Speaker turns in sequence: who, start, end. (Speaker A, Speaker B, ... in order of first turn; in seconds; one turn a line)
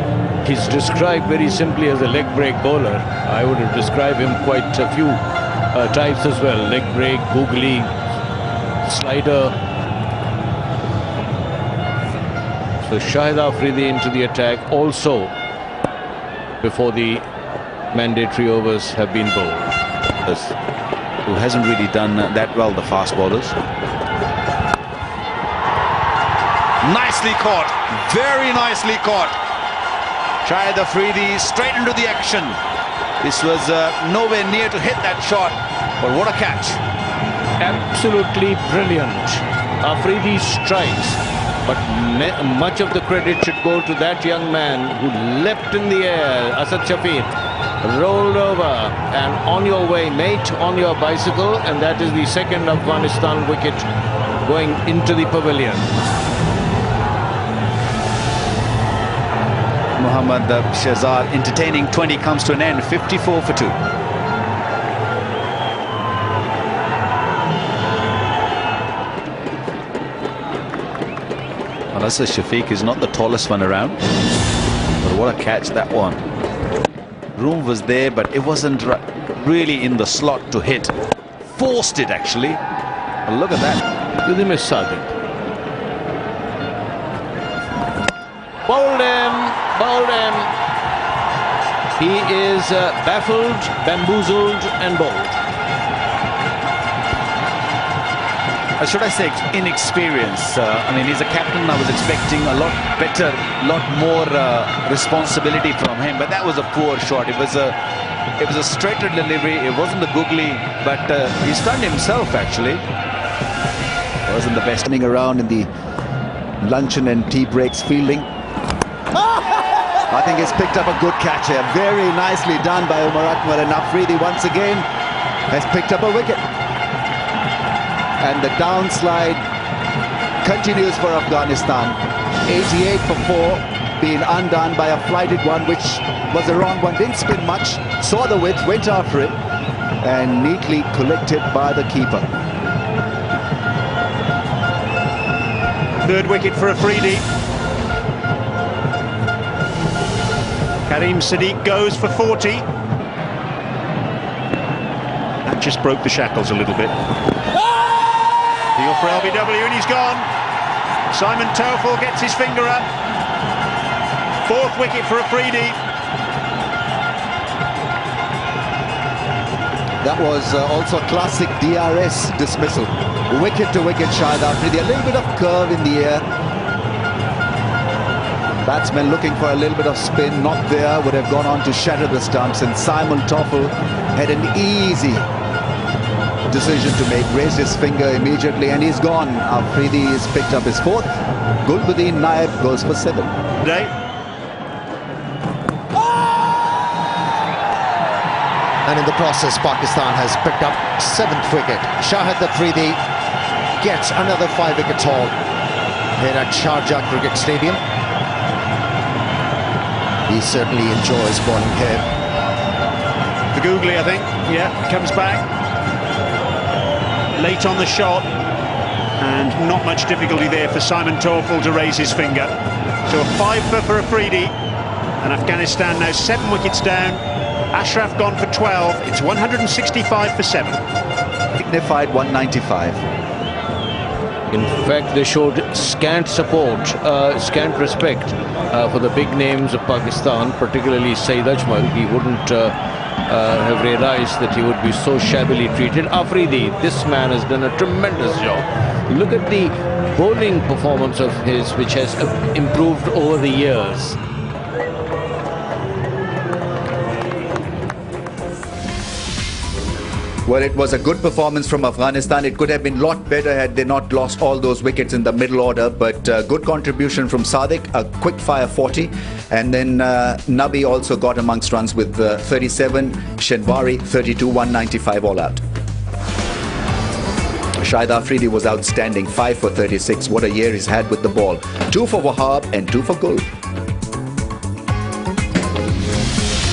Speaker A: 0.4-7.9
Speaker A: 8.8-9.5
Speaker A: 12.8-15.3
Speaker A: 16.6-17.2
Speaker A: 17.9-19.8
Speaker B: 20.2-20.5
Speaker B: 21.2-23.6
Speaker B: 26.8-29.4
Speaker B: 30.4-32.6
Speaker B: 33.2-36.8
Speaker A: 37.6-53.9
Speaker A: 54.4-55.9
Speaker B: 60.0-63.8
Speaker B: 71.9-74.0
Speaker B: 75.0-76.2
Speaker B: 77.3-80.9
Speaker B: 81.5-82.6
Speaker B: 83.2-83.8
Speaker A: 84.2-85.1
Speaker A: 88.7-90.5
Speaker A: 92.0-95.4
Speaker B: 98.8-107.8
Speaker B: 108.4-112.8
Speaker C: 114.2-115.7
Speaker C: 116.6-118.2
Speaker C: 120.1-124.8
Speaker C: 125.5-126.4
Speaker C: 128.2-129.4
Speaker C: 130.4-139.4
Speaker C: 140.0-142.3
Speaker D: 146.0-147.2
Speaker D: 150.9-152.7
Speaker D: 155.5-156.9
Speaker D: 158.8-160.3
Speaker D: 161.1-162.8
Speaker D: 164.4-165.8
Speaker C: 170.0-176.2
Speaker C: 178.6-185.3
Speaker C: 186.5-193.3
Speaker D: 193.6-193.9
Speaker E: 198.8-203.0
Speaker E: 203.8-205.3
Speaker E: 206.2-207.8
Speaker E: 210.3-212.1
Speaker D: 213.5-215.4
Speaker D: 217.3-218.3
Speaker D: 219.2-222.6
Speaker D: 223.1-224.5
Speaker D: 225.2-230.8
Speaker C: 231.6-233.0
Speaker A: 234.5-254.2
Speaker C: 260.4-275.6
Speaker C: 277.8-283.4